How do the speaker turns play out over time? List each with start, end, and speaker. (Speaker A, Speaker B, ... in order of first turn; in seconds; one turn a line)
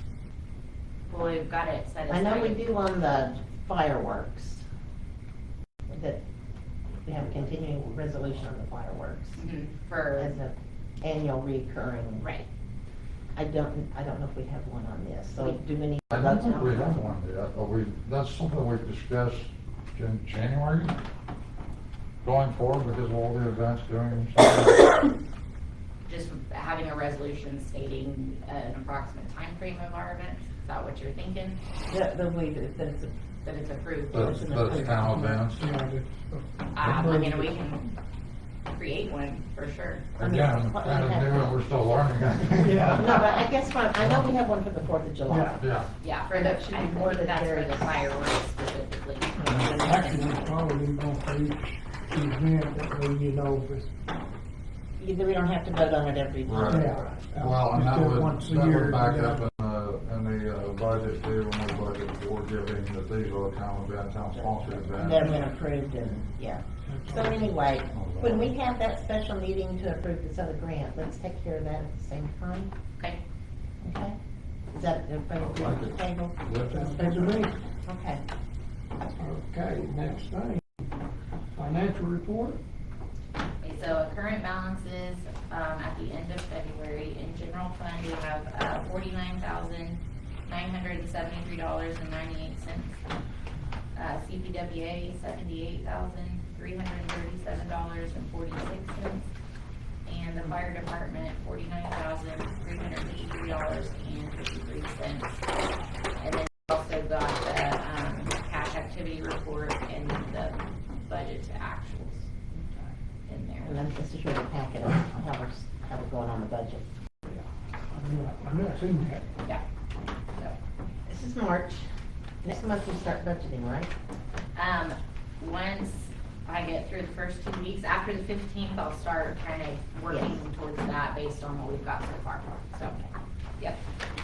Speaker A: 1.1-2.6
Speaker B: 2.1-4.6
Speaker B: 5.9-6.2
Speaker B: 7.0-9.4
Speaker A: 9.3-10.3
Speaker B: 10.2-12.3
Speaker A: 12.2-12.5
Speaker B: 13.3-17.1
Speaker C: 16.1-21.0
Speaker A: 16.6-16.9
Speaker C: 22.2-24.9
Speaker A: 26.1-31.6
Speaker B: 31.9-33.1
Speaker A: 33.4-34.8
Speaker C: 34.1-35.7
Speaker B: 34.1-35.2
Speaker D: 35.0-37.6
Speaker A: 36.7-38.0
Speaker A: 38.7-40.1
Speaker C: 40.1-43.2
Speaker B: 40.2-41.5
Speaker D: 42.6-43.0
Speaker B: 42.6-45.6
Speaker C: 44.0-44.3
Speaker D: 45.3-45.6
Speaker C: 45.6-45.9
Speaker A: 46.0-50.4
Speaker B: 46.3-48.1
Speaker C: 49.4-49.7
Speaker D: 49.8-53.9
Speaker B: 55.0-57.3
Speaker C: 56.4-56.8
Speaker D: 56.7-59.4
Speaker C: 57.4-65.5
Speaker B: 64.3-72.7
Speaker D: 66.8-67.5
Speaker C: 67.9-68.5
Speaker B: 73.8-74.2
Speaker B: 74.7-76.4
Speaker C: 75.4-77.1
Speaker D: 76.7-77.5
Speaker B: 76.9-78.2
Speaker D: 79.2-80.9
Speaker D: 81.5-82.6
Speaker A: 83.6-93.0
Speaker A: 93.9-99.2
Speaker A: 100.0-105.4
Speaker A: 106.2-112.3
Speaker A: 113.3-113.8
Speaker B: 113.6-116.8
Speaker D: 117.3-119.2
Speaker B: 121.1-121.8
Speaker B: 122.4-123.9
Speaker A: 124.5-133.0
Speaker B: 130.1-130.4